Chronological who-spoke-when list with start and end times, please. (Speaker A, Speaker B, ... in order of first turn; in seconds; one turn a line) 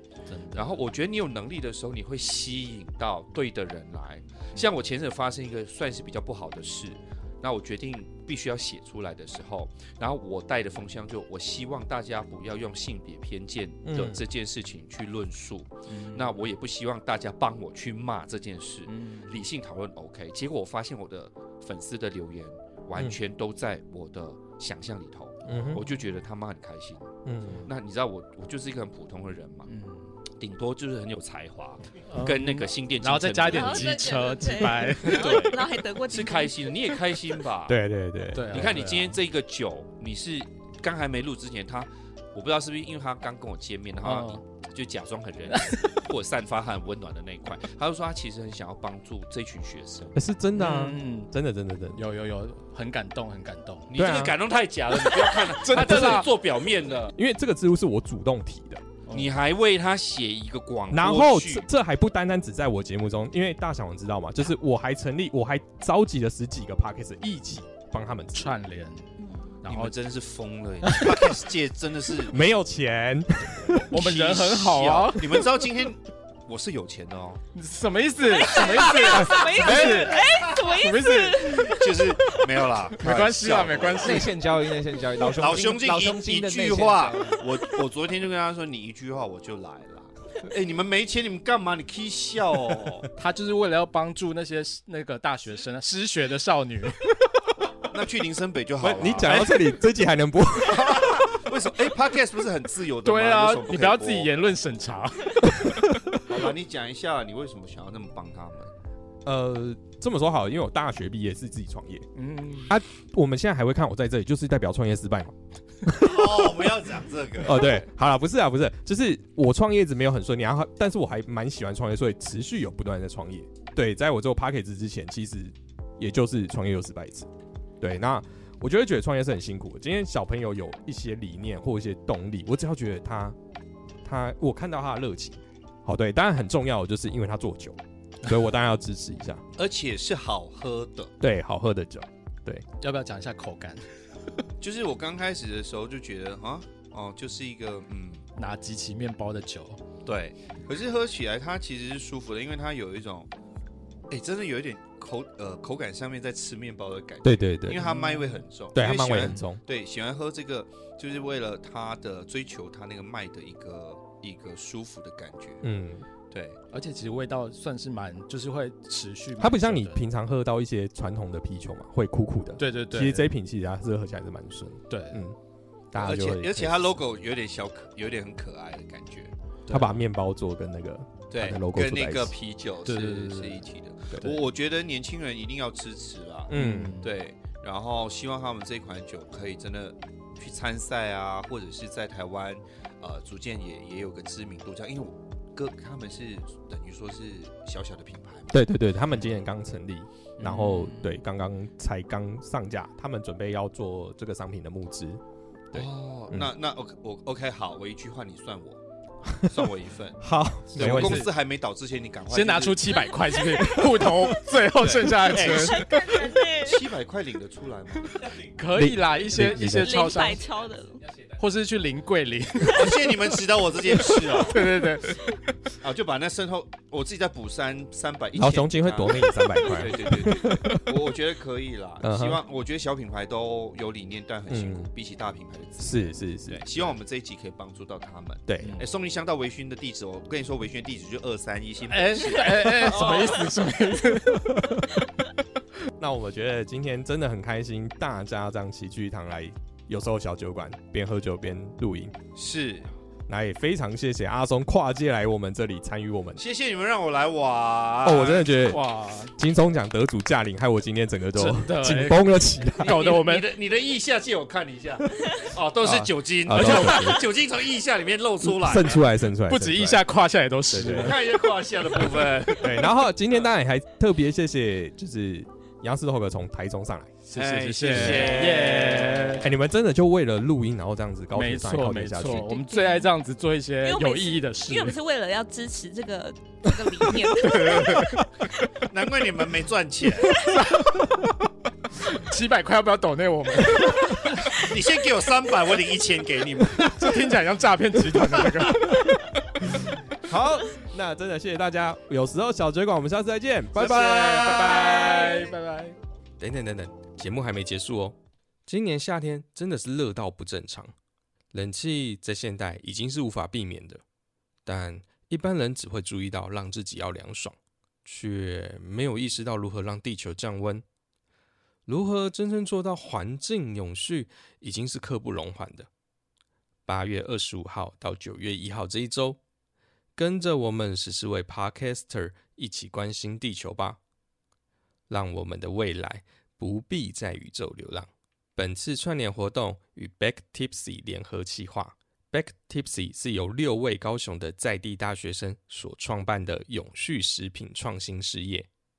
Speaker A: 0.3-0.8
Speaker B: 0.5-27.1
Speaker C: 13.8-14.2
Speaker A: 15.9-16.4
Speaker A: 18.9-19.4
Speaker C: 25.5-25.8
Speaker C: 27.2-27.6
Speaker B: 27.7-29.7
Speaker A: 29.7-30.2
Speaker B: 30.4-34.2
Speaker A: 32.1-35.6
Speaker D: 33.5-37.0
Speaker B: 35.0-37.8
Speaker C: 37.7-38.7
Speaker A: 38.3-39.2
Speaker B: 38.5-50.2
Speaker A: 44.0-44.4
Speaker A: 45.5-45.9
Speaker C: 50.1-52.0
Speaker A: 50.5-51.3
Speaker A: 52.0-53.9
Speaker B: 53.9-57.1
Speaker C: 53.9-54.4
Speaker A: 55.0-56.3
Speaker C: 57.2-58.8
Speaker B: 59.1-61.7
Speaker C: 60.9-68.6
Speaker A: 68.3-69.1
Speaker D: 69.2-69.6
Speaker A: 69.6-70.0
Speaker B: 69.7-72.4
Speaker A: 70.8-71.3
Speaker C: 72.3-73.9
Speaker B: 73.7-77.4
Speaker A: 73.9-75.4
Speaker A: 77.5-80.2
Speaker D: 78.4-81.9
Speaker B: 78.8-80.0
Speaker A: 80.7-81.8
Speaker B: 81.6-84.4
Speaker A: 83.0-84.4
Speaker E: 84.0-87.4
Speaker B: 85.4-93.1
Speaker A: 93.2-97.0
Speaker B: 97.9-99.5
Speaker C: 98.8-101.1
Speaker A: 99.3-99.5
Speaker B: 100.6-104.3
Speaker A: 103.0-105.7
Speaker B: 106.3-108.7
Speaker C: 109.2-112.1
Speaker A: 112.2-112.7
Speaker C: 112.7-115.3
Speaker C: 115.9-116.3
Speaker B: 115.9-117.8
Speaker C: 117.4-133.4
Speaker C: 134.0-139.4
Speaker B: 139.6-141.1
Speaker C: 141.2-142.7
Speaker A: 142.8-143.9
Speaker B: 144.6-148.2
Speaker A: 148.4-149.8
Speaker B: 150.1-153.3
Speaker B: 154.1-165.7
Speaker C: 157.2-157.8
Speaker A: 157.8-158.4
Speaker C: 158.7-159.6
Speaker A: 159.2-159.4
Speaker C: 165.6-166.1
Speaker B: 166.3-166.6
Speaker A: 166.7-170.0
Speaker C: 169.4-175.4
Speaker A: 172.6-173.3
Speaker A: 174.9-175.2
Speaker C: 175.9-177.0
Speaker B: 175.9-179.3
Speaker A: 179.7-180.0
Speaker C: 179.7-182.3
Speaker B: 181.3-198.7
Speaker A: 182.8-183.7
Speaker C: 186.5-186.9
Speaker A: 186.5-187.1
Speaker C: 198.5-206.5
Speaker A: 200.4-201.2
Speaker B: 205.7-208.8
Speaker B: 209.3-213.1
Speaker C: 210.2-211.3
Speaker A: 210.7-211.3
Speaker A: 212.3-216.2
Speaker D: 213.4-213.6
Speaker B: 214.7-218.4
Speaker D: 215.3-216.9
Speaker A: 218.2-220.5
Speaker C: 218.7-219.9
Speaker D: 219.6-221.1
Speaker A: 221.3-223.2
Speaker B: 222.7-224.8
Speaker A: 223.9-225.4
Speaker B: 225.8-243.5
Speaker C: 228.3-231.0
Speaker C: 232.0-232.4
Speaker C: 234.5-234.9
Speaker C: 235.8-236.9
Speaker C: 238.5-238.8
Speaker A: 238.6-238.9
Speaker A: 241.9-244.8
Speaker C: 246.0-252.2
Speaker B: 252.3-252.9
Speaker C: 253.3-256.4
Speaker B: 256.4-258.5
Speaker C: 258.0-258.8
Speaker A: 258.7-259.4
Speaker C: 259.3-263.0
Speaker A: 261.4-263.4
Speaker B: 262.8-269.1
Speaker C: 265.8-267.2
Speaker C: 268.4-270.1
Speaker A: 269.5-271.2
Speaker C: 270.7-271.2
Speaker B: 271.0-272.9
Speaker C: 272.6-277.2
Speaker A: 277.2-279.4
Speaker B: 277.4-279.3
Speaker C: 277.9-278.4
Speaker C: 279.4-282.5
Speaker A: 281.3-285.0
Speaker D: 282.5-283.1
Speaker D: 283.8-288.3
Speaker A: 287.4-288.3
Speaker B: 288.9-290.5
Speaker A: 290.4-291.3
Speaker A: 292.1-294.5
Speaker B: 294.5-297.2
Speaker A: 296.9-299.1
Speaker C: 300.2-304.8
Speaker A: 303.8-306.0
Speaker B: 303.8-304.9
Speaker C: 306.4-310.9
Speaker C: 311.5-314.0
Speaker C: 314.6-320.8
Speaker C: 321.9-325.9
Speaker C: 326.9-329.4
Speaker C: 330.2-334.0
Speaker C: 335.1-348.7